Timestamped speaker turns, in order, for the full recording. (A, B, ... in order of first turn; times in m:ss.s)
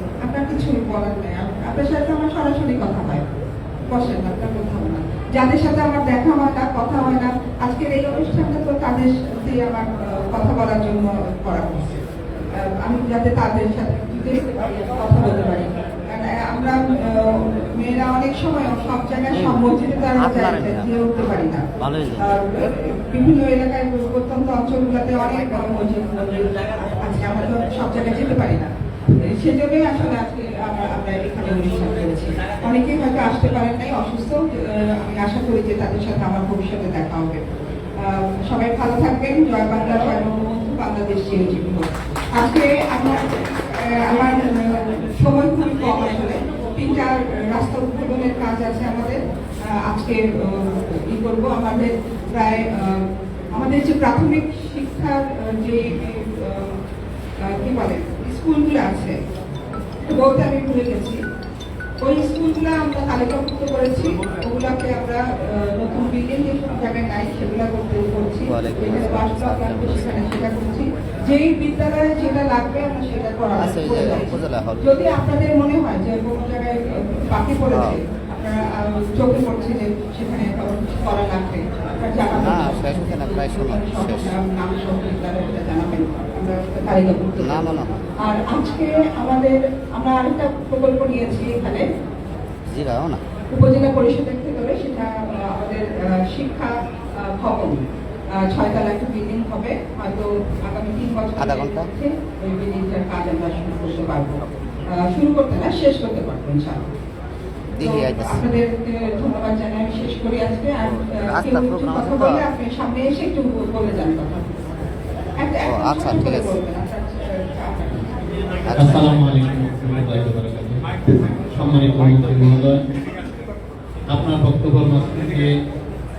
0:00.2-0:03.3 A
0:03.9-0:12.0 A
0:12.5-0:37.4 A
0:20.4-0:20.7 B
0:21.8-0:22.2 B
0:38.0-0:56.7 A
0:57.4-0:59.2 A
1:00.1-1:01.2 A
1:02.0-1:31.8 A
1:08.6-1:09.3 B
1:13.6-1:14.8 B
1:22.4-1:24.0 B
1:27.5-1:27.9 B
1:32.7-1:33.2 B
1:33.5-1:46.8 A
1:41.5-1:41.8 B
1:47.8-1:48.4 B
1:47.8-1:54.7 A
1:51.1-1:52.4 B
1:55.4-1:58.1 A
1:55.8-1:56.3 B
1:58.6-1:59.0 B
1:58.7-2:02.8 C
2:04.1-2:05.5 C